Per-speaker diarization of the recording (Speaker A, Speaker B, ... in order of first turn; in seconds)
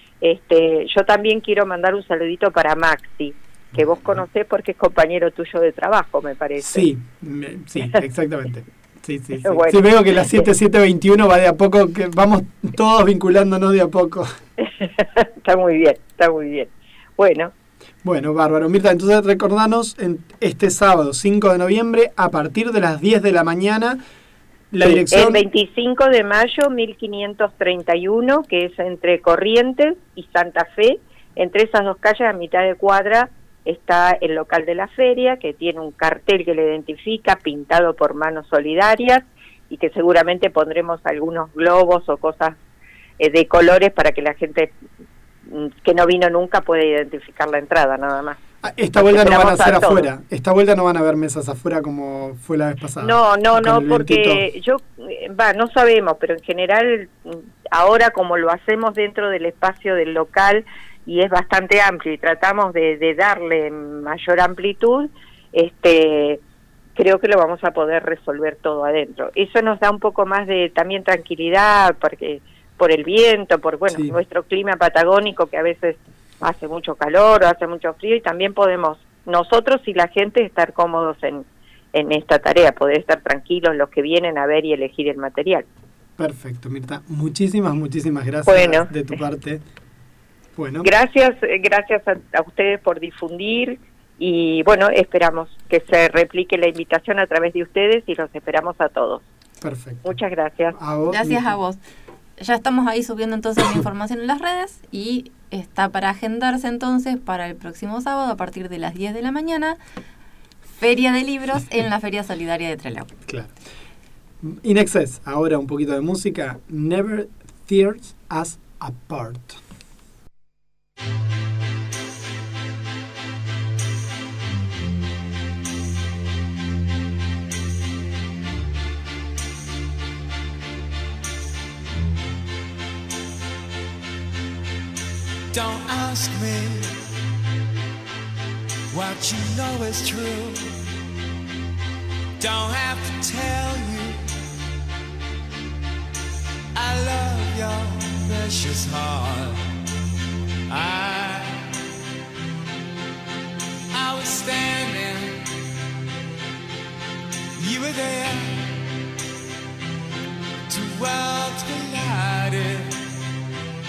Speaker A: 0.2-6.9, 9.4-10.5, 14.6-17.5, 24.8-42.6, 43.2-44.7, 45.5-48.4, 49.0-50.1, 53.0-66.4, 67.0-85.7, 88.5-88.9, 90.8-99.2, 100.0-100.8
Speaker B: 3.7-4.2, 6.6-14.3, 18.0-24.0, 24.7-25.4, 48.6-54.5, 73.9-74.2, 86.2-89.6, 90.6-90.9, 99.6-100.2, 100.7-101.5, 113.3-113.6, 114.4-119.6
Speaker C: 101.1-101.8, 102.4-109.8, 110.8-113.1
Speaker D: 135.5-137.0, 138.9-140.8, 142.4-144.2, 146.8-149.7, 150.7-151.7, 153.9-155.5, 157.6-158.8, 160.7-163.0